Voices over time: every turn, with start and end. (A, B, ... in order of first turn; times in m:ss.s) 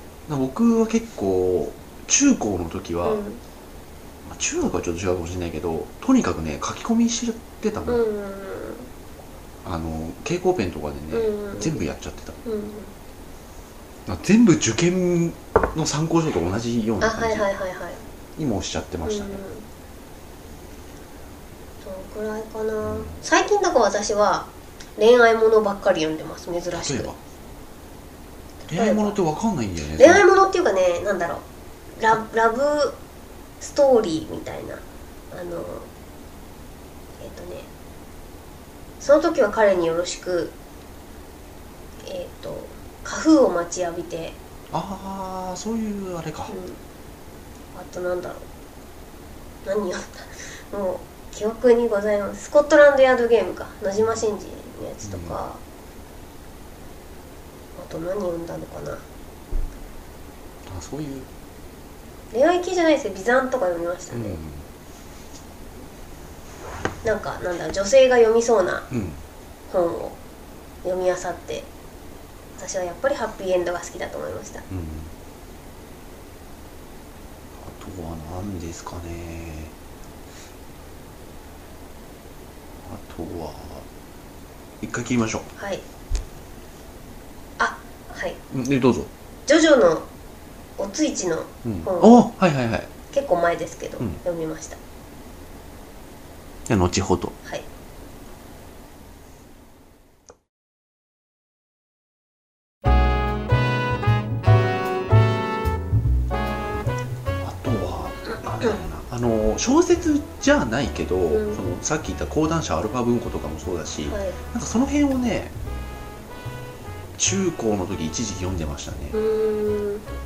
0:00.3-0:03.2 A
0:03.0-0:03.4 B
0:04.2-0:08.1 A
0:07.9-0:08.9 B
0:09.6-0:12.4 A
0:11.1-0:11.9 B
0:12.4-0:12.9 B
0:14.1-0:17.5 A
0:17.0-0:18.0 B
0:18.4-0:19.4 A
0:19.0-0:19.6 B
0:21.8-0:27.1 B
0:22.8-0:23.2 A
0:26.7-0:27.2 A
0:28.7-0:29.2 B
0:28.7-0:30.3 A
0:30.0-0:31.4 B
0:32.0-0:33.0 B
0:33.6-0:35.9 B
0:37.2-0:37.7 B
0:39.0-0:40.5 B
0:42.0-0:44.4 B
0:44.7-0:46.6 A
0:46.5-0:46.8 B
0:47.7-0:48.4 B
0:49.6-0:55.6 B
0:55.0-0:55.4 A
0:57.8-0:59.0 B
1:00.7-1:01.3 A
1:02.3-1:04.4 B
1:04.1-1:04.7 A
1:07.0-1:08.9 B
1:08.9-1:09.2 A
1:09.7-1:10.2 B
1:10.8-1:11.7 B
1:12.6-1:14.6 B
1:14.7-1:15.1 A
1:17.6-1:19.7 A
1:22.8-1:23.9 A
1:24.8-1:25.5 A
1:25.6-1:25.8 B
1:27.6-1:28.4 B
1:28.5-1:29.1 A
1:29.5-1:30.1 B
1:30.8-1:32.3 B
1:31.6-1:32.9 A
1:33.1-1:34.8 B
1:36.7-1:37.4 A
1:47.4-1:55.5 A
1:51.3-1:51.6 B
1:54.1-1:54.4 B
1:57.2-1:59.2 A
1:59.1-2:00.0 B